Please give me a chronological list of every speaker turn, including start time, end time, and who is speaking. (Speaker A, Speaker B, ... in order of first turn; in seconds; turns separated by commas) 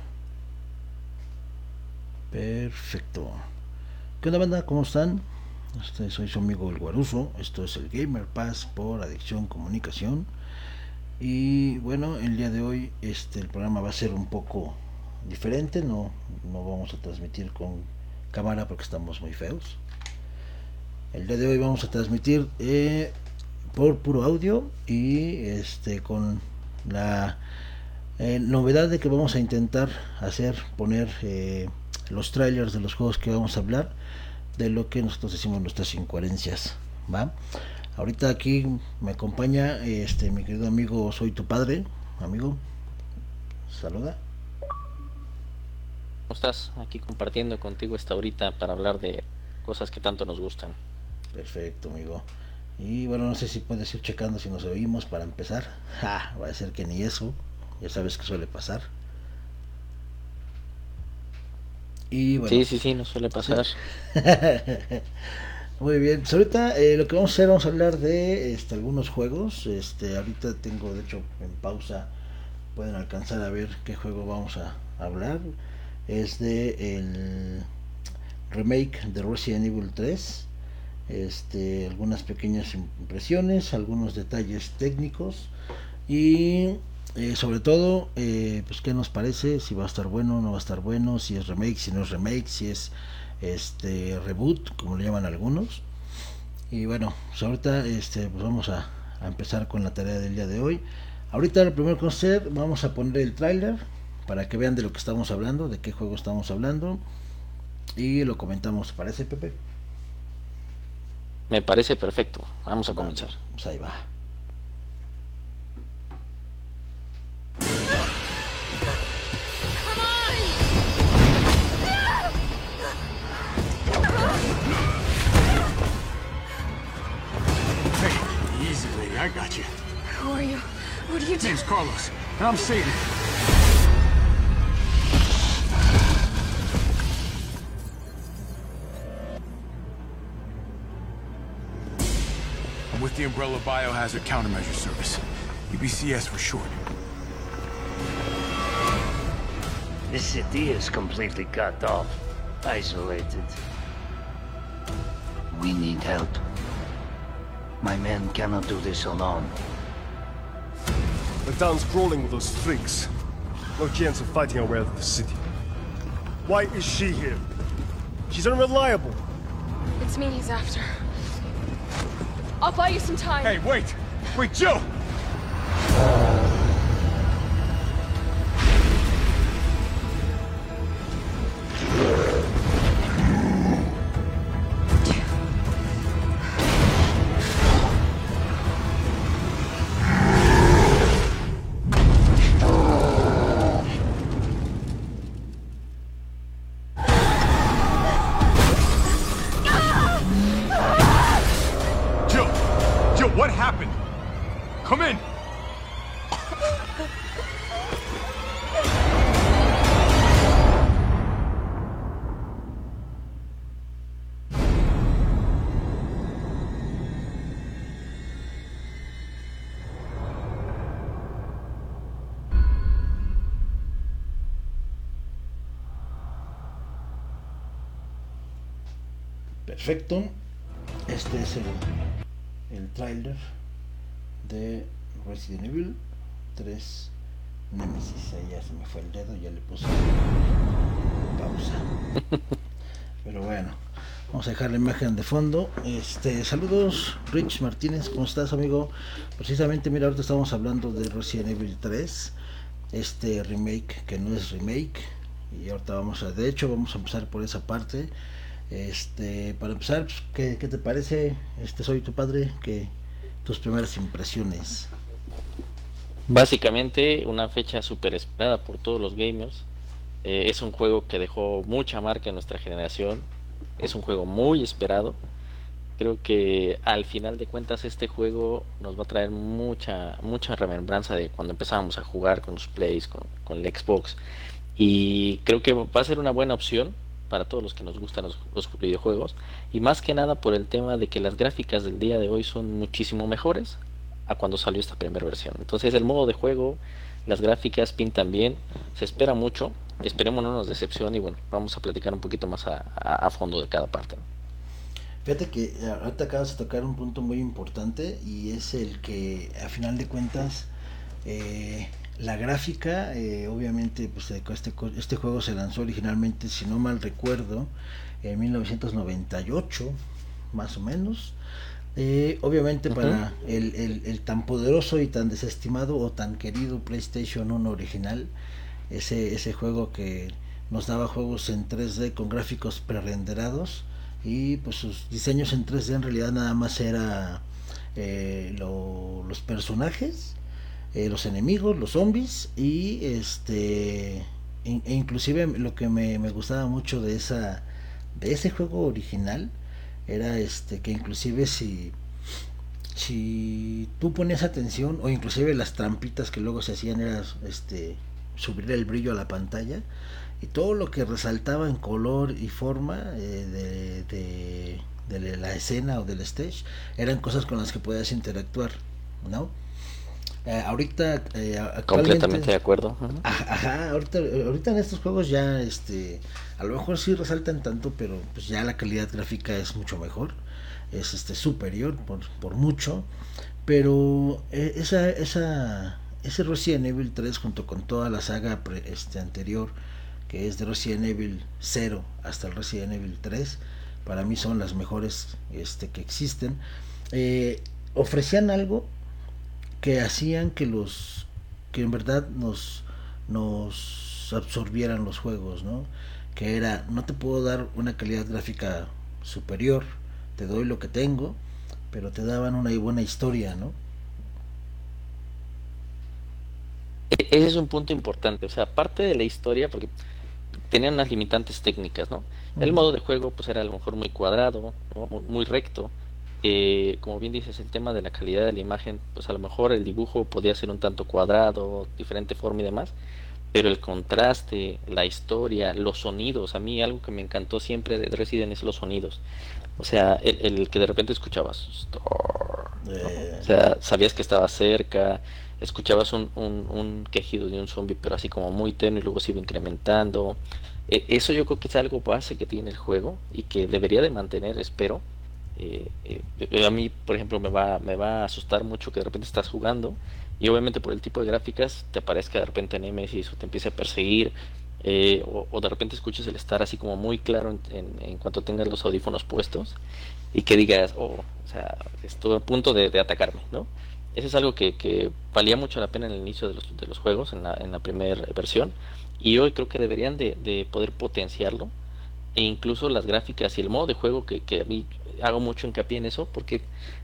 Speaker A: 2.3-3.4, Speaker A: 4.2-5.2, Speaker A: 5.8-10.3, Speaker A: 11.2-19.8, Speaker A: 21.1-23.1, Speaker A: 23.7-27.4, Speaker A: 28.2-33.9, Speaker A: 34.5-37.3, Speaker A: 38.0-42.6, Speaker A: 43.7-44.2, Speaker B: 46.3-50.8, Speaker A: 51.3-52.2, Speaker A: 52.8-58.9, Speaker A: 62.1-62.6, Speaker B: 62.5-63.8, Speaker A: 63.4-65.0, Speaker A: 65.8-72.1, Speaker A: 72.7-75.4, Speaker A: 76.1-77.7, Speaker A: 78.5-80.5, Speaker A: 81.1-85.5, Speaker A: 86.1-95.8, Speaker A: 96.7-107.0, Speaker A: 108.0-109.6, Speaker B: 111.5-113.3, Speaker A: 112.9-114.0, Speaker C: 127.9-129.7, Speaker D: 130.1-131.6, Speaker C: 131.4-133.0, Speaker C: 142.9-146.8, Speaker E: 150.1-153.6, Speaker E: 155.5-156.4, Speaker E: 157.8-159.6, Speaker F: 161.4-163.1, Speaker F: 163.8-165.4, Speaker F: 166.4-167.4, Speaker F: 168.3-169.2, Speaker D: 170.0-171.0, Speaker D: 172.6-173.6, Speaker C: 173.4-174.9, Speaker C: 202.3-202.6, Speaker C: 203.1-204.0, Speaker C: 204.8-205.2, Speaker A: 229.7-230.3, Speaker A: 231.1-231.8, Speaker A: 232.7-233.4, Speaker A: 234.4-236.0, Speaker A: 236.6-237.1, Speaker A: 237.7-240.2, Speaker A: 241.3-241.9, Speaker A: 243.2-243.8, Speaker A: 244.3-252.3, Speaker A: 252.9-258.1, Speaker A: 258.7-262.9, Speaker A: 263.4-264.9, Speaker B: 266.3-269.6, Speaker B: 270.2-273.2, Speaker B: 273.8-275.2, Speaker B: 276.0-284.2, Speaker B: 284.8-304.2, Speaker A: 305.2-310.7, Speaker A: 311.2-317.7, Speaker A: 318.2-320.0, Speaker A: 320.5-321.3, Speaker A: 321.9-328.3, Speaker B: 322.9-323.2, Speaker A: 328.9-337.4, Speaker A: 337.9-340.4, Speaker A: 340.9-347.6, Speaker A: 348.2-349.5, Speaker A: 350.1-351.9, Speaker A: 352.9-359.8, Speaker A: 360.4-369.5, Speaker A: 370.4-372.5, Speaker B: 371.9-373.2, Speaker A: 373.2-380.4, Speaker A: 380.9-383.1, Speaker A: 383.6-389.7, Speaker A: 390.3-396.6, Speaker A: 397.1-398.9, Speaker A: 399.8-411.4, Speaker A: 411.9-413.8, Speaker B: 417.1-419.9, Speaker B: 420.7-432.9, Speaker A: 422.6-422.9, Speaker B: 433.5-439.2, Speaker B: 439.8-455.0, Speaker A: 442.8-443.5, Speaker B: 455.6-469.8, Speaker B: 470.3-481.7, Speaker B: 482.3-486.7